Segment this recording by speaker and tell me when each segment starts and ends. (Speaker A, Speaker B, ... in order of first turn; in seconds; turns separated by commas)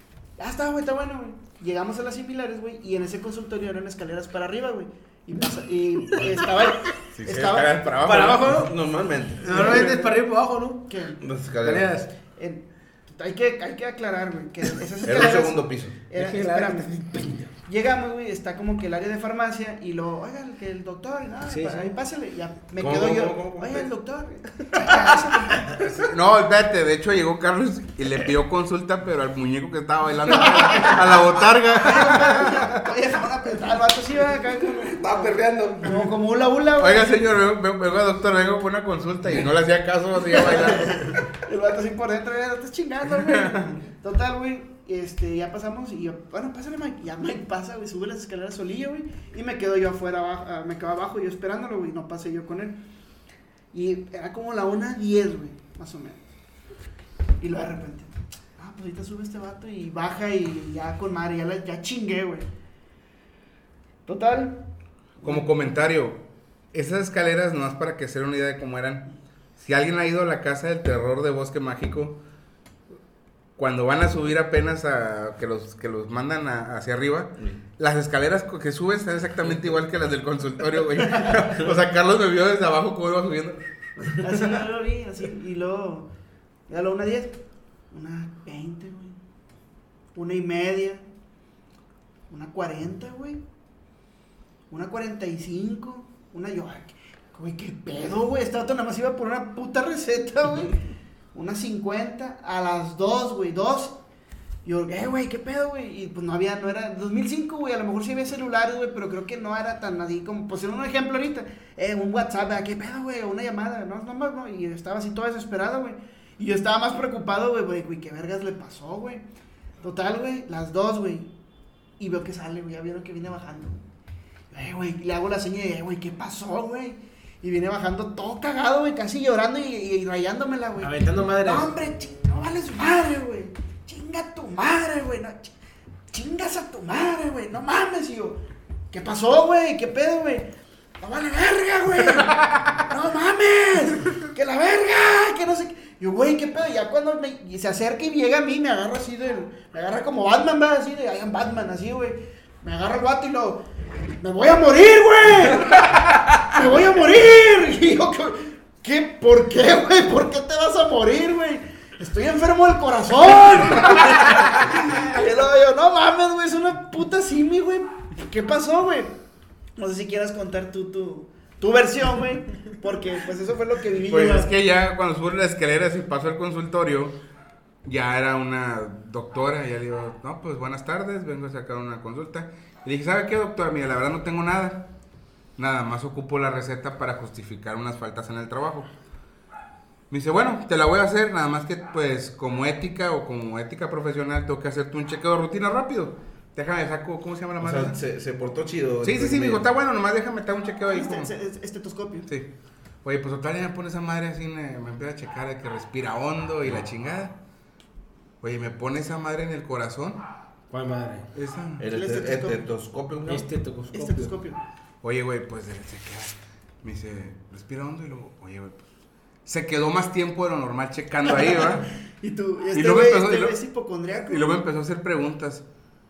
Speaker A: 0.4-7.9, Speaker B: 7.1-8.5, Speaker C: 8.0-8.7, Speaker D: 8.4-10.1, Speaker C: 9.4-10.9, Speaker A: 9.5-10.0, Speaker A: 10.9-11.2, Speaker D: 11.2-11.9, Speaker C: 11.6-12.1, Speaker A: 12.4-16.9, Speaker D: 15.0-15.9, Speaker C: 16.1-17.5, Speaker A: 17.6-25.7, Speaker C: 21.4-21.9, Speaker D: 22.8-23.9, Speaker B: 25.8-32.8, Speaker A: 30.7-31.1, Speaker A: 31.7-37.3, Speaker D: 34.8-36.1, Speaker B: 36.8-41.2, Speaker A: 40.6-52.8, Speaker B: 43.2-43.8, Speaker A: 53.7-56.2, Speaker A: 57.4-62.5, Speaker A: 64.0-64.6, Speaker B: 65.2-66.2, Speaker B: 66.7-69.0, Speaker B: 69.6-72.2, Speaker B: 73.6-84.6, Speaker A: 84.1-86.1, Speaker A: 86.7-87.4, Speaker A: 87.9-89.2, Speaker A: 90.1-91.0, Speaker A: 92.3-93.4, Speaker A: 94.7-100.8, Speaker A: 101.3-104.0, Speaker A: 104.6-119.2, Speaker A: 119.8-121.3, Speaker A: 122.0-123.8, Speaker A: 124.5-135.5, Speaker C: 130.8-131.7, Speaker A: 136.1-138.4, Speaker A: 138.9-140.5, Speaker A: 141.0-153.6, Speaker B: 142.2-142.7, Speaker A: 154.2-169.2, Speaker A: 169.8-174.5, Speaker B: 174.1-177.1, Speaker B: 177.8-184.9, Speaker B: 185.6-188.9, Speaker B: 190.1-197.9, Speaker D: 197.6-199.7, Speaker B: 199.0-201.3, Speaker A: 200.9-202.3, Speaker B: 203.0-207.3, Speaker B: 208.4-210.2, Speaker C: 210.7-211.3, Speaker B: 211.3-211.8, Speaker D: 211.8-213.5, Speaker A: 211.9-212.6, Speaker C: 213.3-214.3, Speaker A: 213.9-214.6, Speaker B: 215.0-218.8, Speaker B: 219.4-221.9, Speaker A: 222.2-224.6, Speaker B: 222.7-223.6, Speaker B: 224.2-225.6